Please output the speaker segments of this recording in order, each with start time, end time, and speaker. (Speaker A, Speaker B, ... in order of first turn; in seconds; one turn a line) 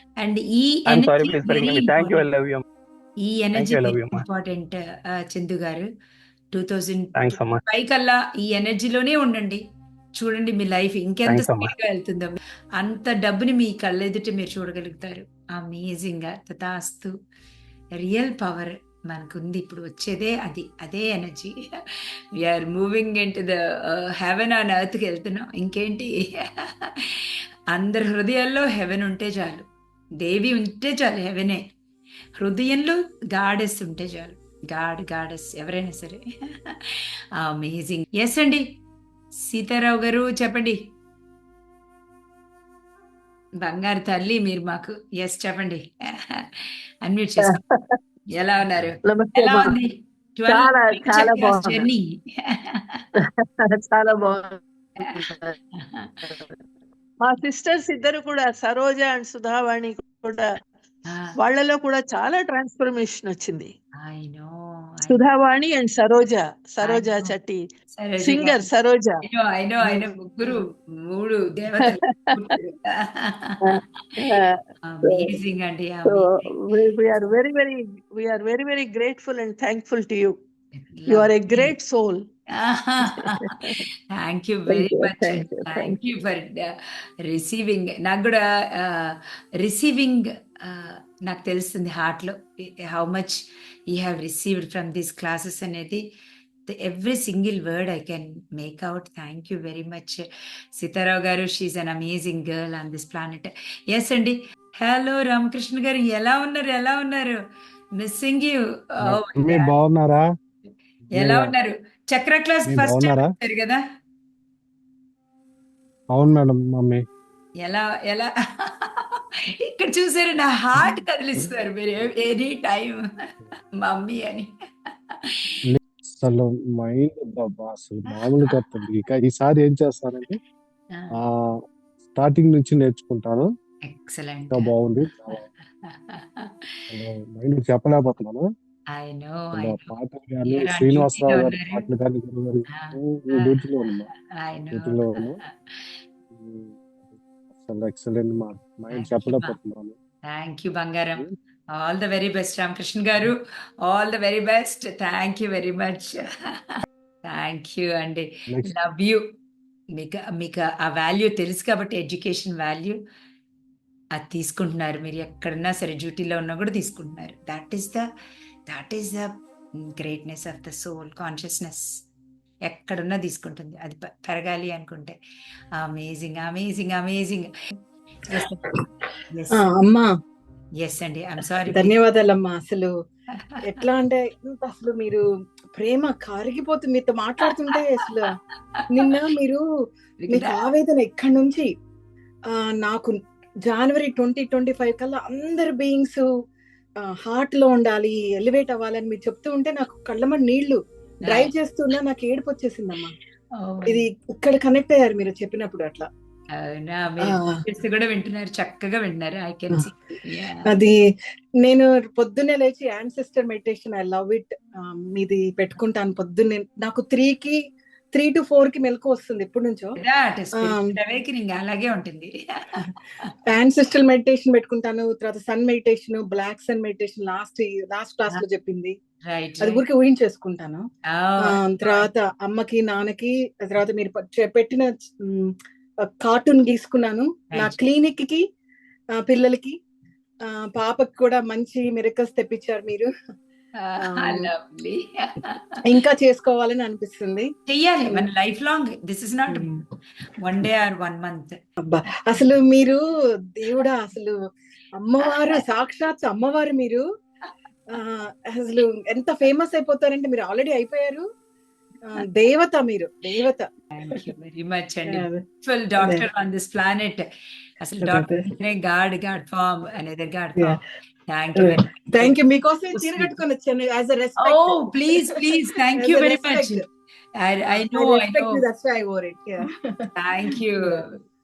Speaker A: 0.2-2.2
Speaker B: 0.9-2.6
Speaker A: 3.2-5.9
Speaker B: 3.5-4.2
Speaker A: 6.5-9.6
Speaker B: 7.1-7.6
Speaker A: 10.2-17.1
Speaker B: 11.3-11.7
Speaker A: 18.0-21.5
Speaker A: 22.4-27.1
Speaker A: 27.7-29.7
Speaker A: 30.2-31.6
Speaker A: 32.4-38.6
Speaker A: 39.5-40.8
Speaker A: 43.6-47.5
Speaker C: 47.4-48.0
Speaker A: 48.3-53.0
Speaker C: 49.0-49.8
Speaker C: 50.5-51.9
Speaker C: 53.2-55.5
Speaker A: 55.8-56.1
Speaker C: 57.2-60.6
Speaker C: 61.4-63.7
Speaker A: 64.0-65.2
Speaker C: 65.0-67.6
Speaker A: 66.8-67.3
Speaker A: 67.9-68.7
Speaker C: 68.2-69.2
Speaker A: 69.3-73.5
Speaker C: 69.8-70.6
Speaker C: 71.8-72.5
Speaker C: 73.6-75.4
Speaker A: 74.8-76.5
Speaker C: 76.0-80.4
Speaker A: 80.8-81.7
Speaker C: 81.1-82.3
Speaker A: 82.6-83.5
Speaker C: 83.0-83.8
Speaker A: 84.1-96.0
Speaker C: 84.7-86.0
Speaker A: 96.7-107.4
Speaker A: 108.0-109.7
Speaker D: 109.0-110.2
Speaker D: 111.1-111.5
Speaker A: 111.1-113.8
Speaker D: 112.7-113.3
Speaker D: 116.1-117.0
Speaker A: 117.6-123.0
Speaker D: 120.8-121.5
Speaker A: 123.8-125.4
Speaker D: 125.7-130.4
Speaker A: 128.1-128.8
Speaker D: 131.2-131.5
Speaker D: 132.1-133.5
Speaker A: 133.8-134.7
Speaker D: 134.5-135.4
Speaker A: 135.3-136.6
Speaker D: 136.9-138.4
Speaker A: 138.9-139.9
Speaker D: 139.5-144.1
Speaker A: 140.4-141.9
Speaker A: 142.7-146.0
Speaker D: 144.7-145.4
Speaker D: 146.3-149.9
Speaker A: 148.9-149.5
Speaker A: 150.3-156.2
Speaker A: 157.2-159.2
Speaker A: 159.9-163.0
Speaker A: 164.1-168.0
Speaker A: 168.7-171.8
Speaker A: 172.7-175.2
Speaker A: 175.8-177.5
Speaker A: 179.3-179.6
Speaker E: 179.5-180.1
Speaker A: 180.8-181.9
Speaker E: 181.6-182.9
Speaker E: 183.7-185.2
Speaker E: 185.7-188.3
Speaker E: 188.9-189.6
Speaker A: 190.2-190.6
Speaker E: 190.3-191.7
Speaker E: 192.5-193.1
Speaker E: 193.7-196.2
Speaker E: 197.1-203.1
Speaker A: 203.6-204.0
Speaker E: 203.9-206.1
Speaker A: 206.6-210.6
Speaker E: 207.2-207.6
Speaker E: 210.7-210.9
Speaker E: 211.6-217.6
Speaker E: 218.1-219.9
Speaker A: 220.0-222.3
Speaker E: 220.6-220.8
Speaker E: 223.5-228.9
Speaker A: 229.2-229.8
Speaker E: 229.6-230.8
Speaker A: 231.1-232.1
Speaker E: 231.4-235.5
Speaker E: 236.2-238.4
Speaker A: 237.5-237.8
Speaker E: 239.2-239.7
Speaker E: 240.6-243.1
Speaker A: 243.8-245.6
Speaker E: 244.0-244.5
Speaker E: 245.8-247.5
Speaker A: 247.7-249.7
Speaker E: 249.5-249.8
Speaker A: 250.4-251.6
Speaker E: 251.8-253.0
Speaker E: 253.6-254.4
Speaker E: 254.9-257.0
Speaker E: 257.9-261.2
Speaker E: 262.1-263.7
Speaker A: 263.9-267.2
Speaker E: 265.1-265.4
Speaker E: 266.0-266.3
Speaker A: 267.8-270.8
Speaker E: 268.0-268.4
Speaker A: 271.3-272.3
Speaker E: 271.6-275.3
Speaker A: 272.9-273.3
Speaker A: 274.4-276.8
Speaker E: 275.9-276.8
Speaker A: 277.4-278.6
Speaker E: 277.7-279.7
Speaker A: 280.1-281.2